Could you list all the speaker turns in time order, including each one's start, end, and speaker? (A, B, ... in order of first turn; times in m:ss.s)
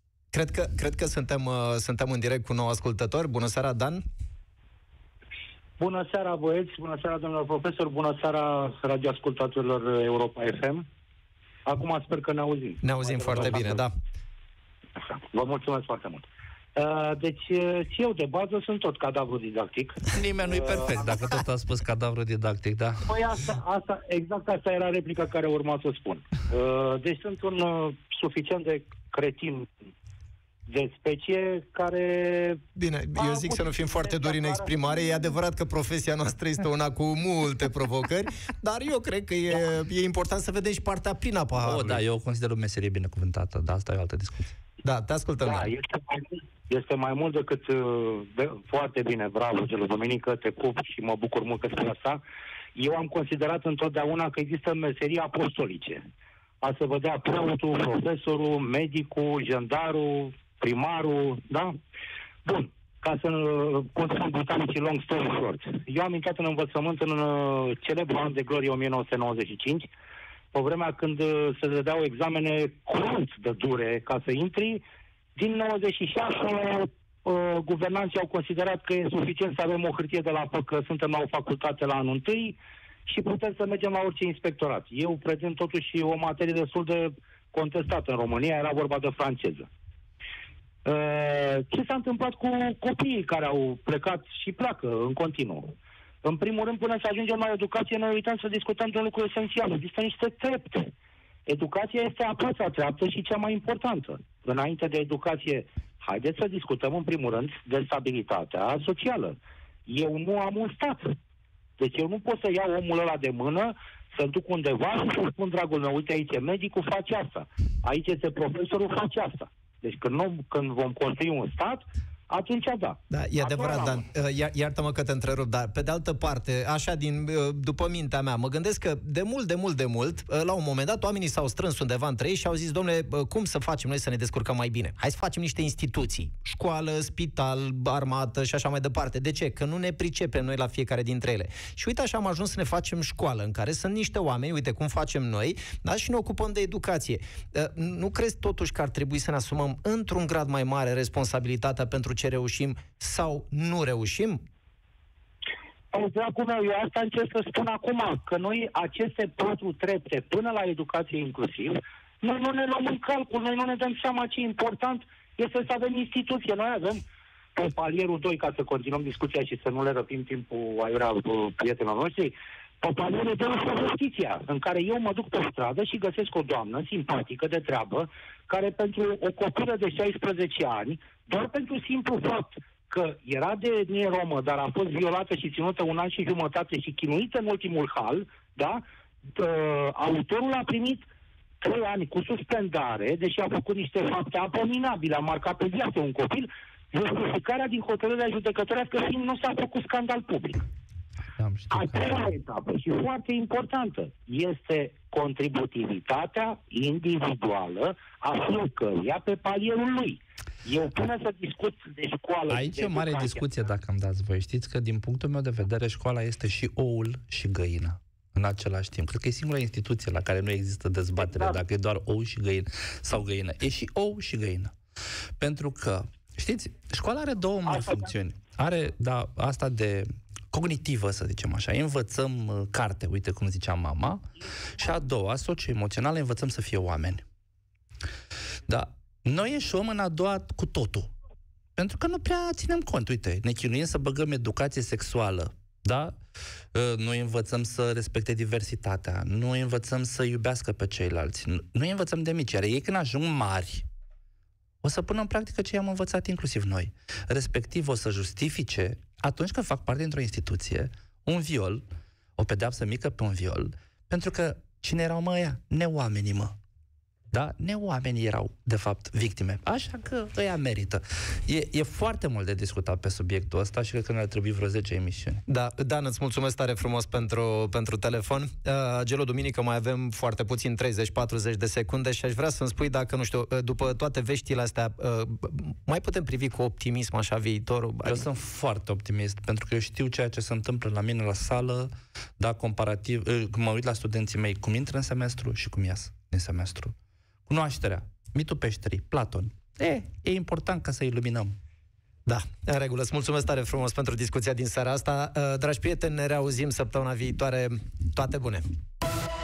0:00.3-0:04.0 A
0:05.8-0:10.9 B
0:11.6-0:13.9 B
0:12.8-0:13.9 A
0:15.0-0:21.0 B
0:20.1-0:23.0 C
0:23.0-0:29.7 B
0:30.7-0:32.6 B
0:32.8-0:42.0 A
0:33.1-0:35.2 B
0:41.6-0:44.6 C
0:44.8-0:45.7 A
0:45.4-0:52.2 B
0:52.8-0:56.0 B
0:56.6-1:01.7 B
1:02.4-1:09.9 B
1:10.5-1:14.8 B
1:15.4-1:29.7 B
1:30.8-1:40.9 B
1:41.5-1:51.1 B
1:51.8-2:04.0 B
2:03.1-2:34.4 A
2:35.9-2:47.0 B
2:47.6-3:08.8 B
3:09.3-3:11.0 B
3:11.6-3:20.6 B
3:21.4-3:22.3 C
3:21.7-3:33.4 B
3:32.5-3:44.7 C
3:41.2-3:41.6 B
3:45.4-3:54.2 C
3:47.7-3:48.1 B
3:54.8-3:57.2 C
3:58.7-4:01.1 C
4:01.8-4:06.2 C
4:06.7-4:13.8 C
4:14.8-4:21.8 C
4:22.4-4:26.6 C
4:27.3-4:35.4 C
4:35.5-4:48.3 A
4:48.0-4:57.0 C
4:57.5-5:01.6 C
5:02.3-5:08.6 A